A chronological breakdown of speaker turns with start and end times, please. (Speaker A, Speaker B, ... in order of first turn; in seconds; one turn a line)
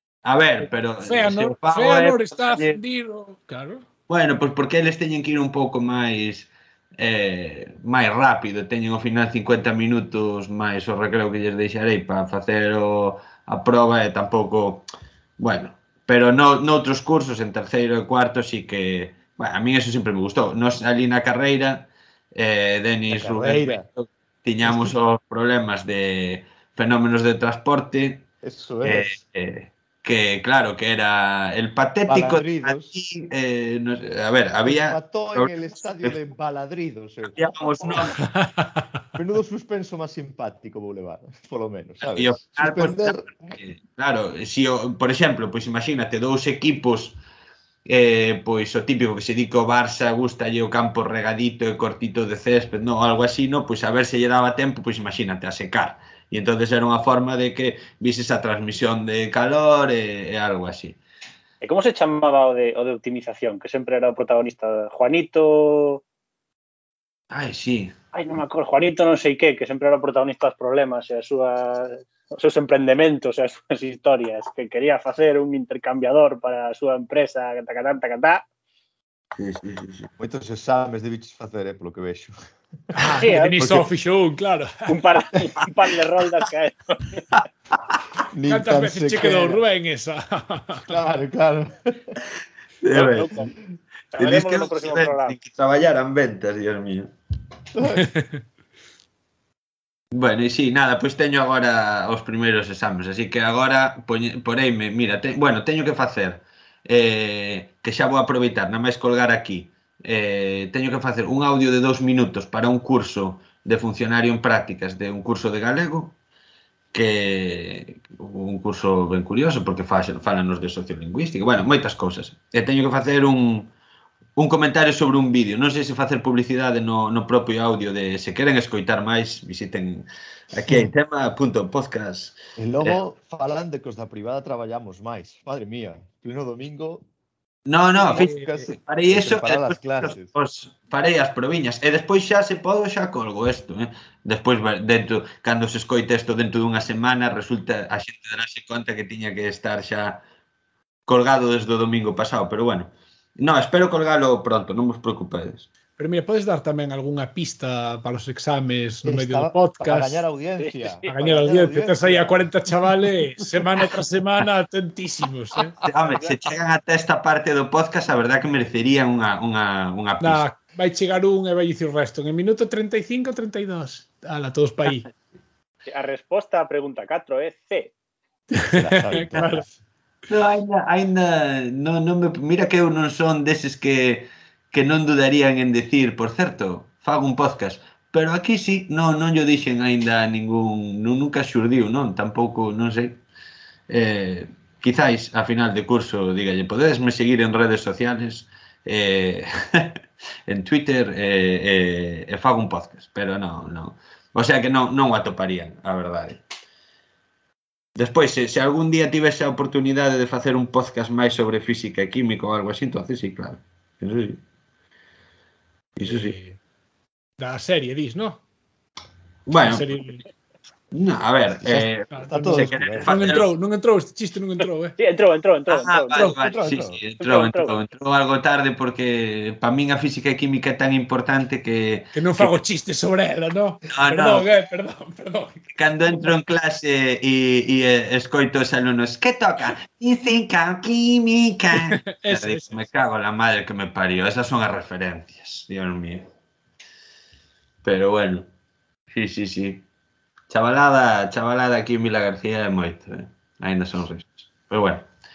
Speaker A: 0.2-2.8
Speaker B: 1.0-3.9
Speaker A: 4.1-14.8
Speaker A: 15.4-28.3
Speaker C: 23.1-23.9
Speaker C: 24.6-24.9
Speaker C: 28.4-29.1
Speaker A: 28.8-36.2
Speaker C: 32.1-33.0
Speaker C: 34.7-38.1
Speaker A: 37.2-38.2
Speaker B: 38.2-38.8
Speaker C: 39.2-43.3
Speaker A: 42.0-47.2
Speaker A: 47.9-61.0
Speaker D: 61.6-66.0
Speaker A: 67.3-67.9
Speaker D: 68.1-78.4
Speaker A: 79.4-80.1
Speaker C: 80.2-82.3
Speaker C: 82.9-83.9
Speaker B: 82.9-85.0
Speaker D: 83.2-83.6
Speaker D: 84.9-87.3
Speaker C: 88.3-89.6
Speaker B: 88.5-90.9
Speaker C: 90.9-92.2
Speaker A: 92.8-93.3
Speaker D: 92.9-93.5
Speaker D: 94.1-95.4
Speaker A: 94.2-97.1
Speaker C: 97.7-98.0
Speaker B: 97.8-98.4
Speaker A: 100.1-116.2
Speaker A: 116.9-123.7
Speaker A: 124.4-133.0
Speaker C: 132.6-137.1
Speaker A: 137.7-150.2
Speaker C: 138.0-140.3
Speaker B: 138.1-138.5
Speaker A: 151.1-155.7
Speaker B: 156.0-160.2
Speaker C: 159.1-162.5
Speaker D: 160.6-161.1
Speaker B: 161.1-165.8
Speaker A: 165.8-170.4
Speaker D: 165.8-166.4
Speaker B: 170.2-175.1
Speaker D: 175.9-177.9
Speaker B: 178.5-179.7
Speaker C: 178.7-179.7
Speaker A: 180.3-193.2
Speaker A: 193.9-206.4
Speaker A: 208.0-214.4
Speaker A: 216.0-216.4
Speaker B: 216.1-216.6
Speaker B: 217.4-218.4
Speaker A: 219.5-219.9
Speaker B: 219.6-220.2
Speaker A: 220.9-223.5
Speaker C: 221.6-223.2
Speaker B: 222.1-225.0
Speaker D: 225.0-226.4
Speaker A: 225.7-232.6
Speaker C: 226.2-227.0
Speaker D: 227.2-227.8
Speaker B: 232.1-235.6
Speaker A: 233.9-234.5
Speaker A: 235.7-246.3
Speaker B: 241.7-242.8
Speaker A: 247.8-248.5
Speaker A: 249.1-249.8
Speaker A: 250.5-255.1